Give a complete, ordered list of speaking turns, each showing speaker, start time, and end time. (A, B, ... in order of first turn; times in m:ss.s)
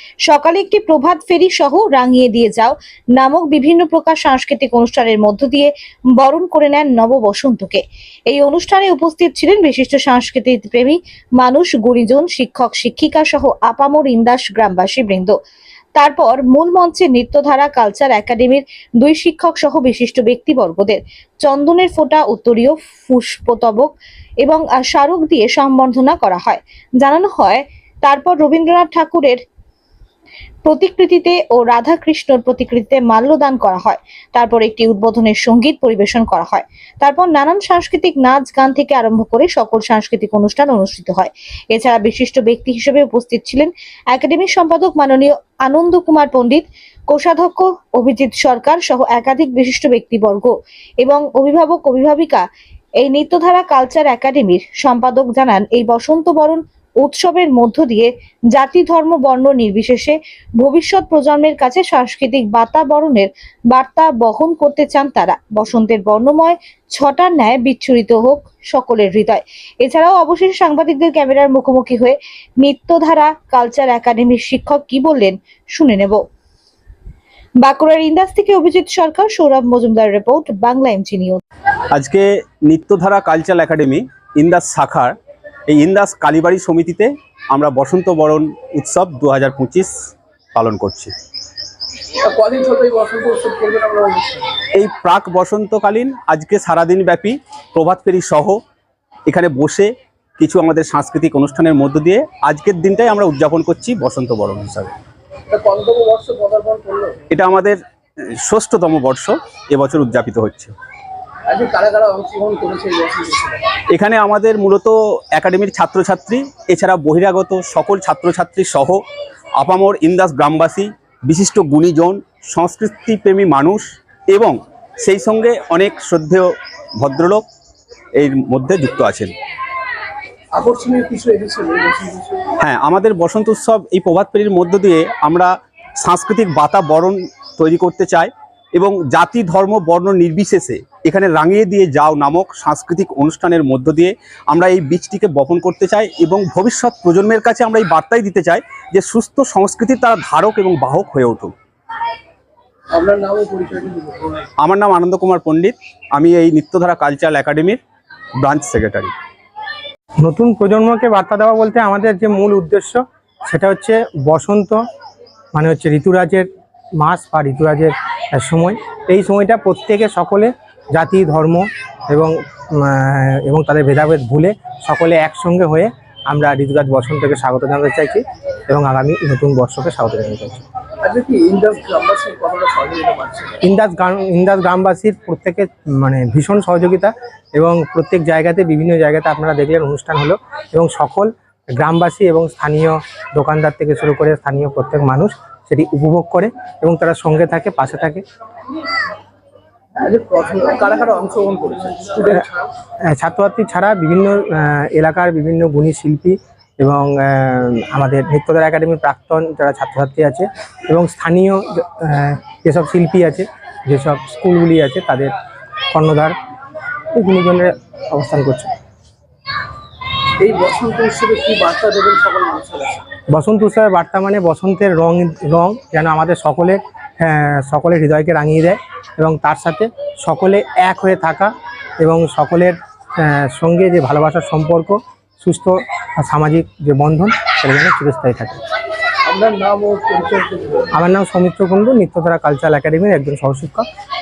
0:00.3-0:15.3 A
0:16.0-0:29.4 A
0:30.6-0:52.4 A
0:53.0-1:16.2 A
1:17.6-1:21.4 A
1:21.9-1:25.1 B
1:25.7-1:31.1 B
1:32.2-1:34.5 C
1:34.8-1:38.6 B
1:39.3-1:44.9 B
1:45.5-1:47.2 C
1:47.3-1:47.8 B
1:48.4-1:50.7 B
1:51.5-1:53.7 C
1:53.9-1:59.0 B
1:59.6-2:07.4 B
2:08.2-2:09.3 B
2:10.5-2:12.5 C
2:12.6-2:31.5 B
2:32.9-2:34.4 C
2:34.6-2:37.8 B
2:38.4-2:39.1 B
2:40.2-2:44.8 D
2:45.5-3:00.6 D
3:01.0-3:03.6 C
3:03.6-3:18.2 D
3:20.0-3:22.7 C
3:23.1-3:35.3 D
3:35.9-3:36.3 D
3:37.1-3:38.7 D
3:40.4-3:43.0 C
3:43.3-3:58.6 D
3:59.2-4:00.9 C
4:00.9-4:03.8 D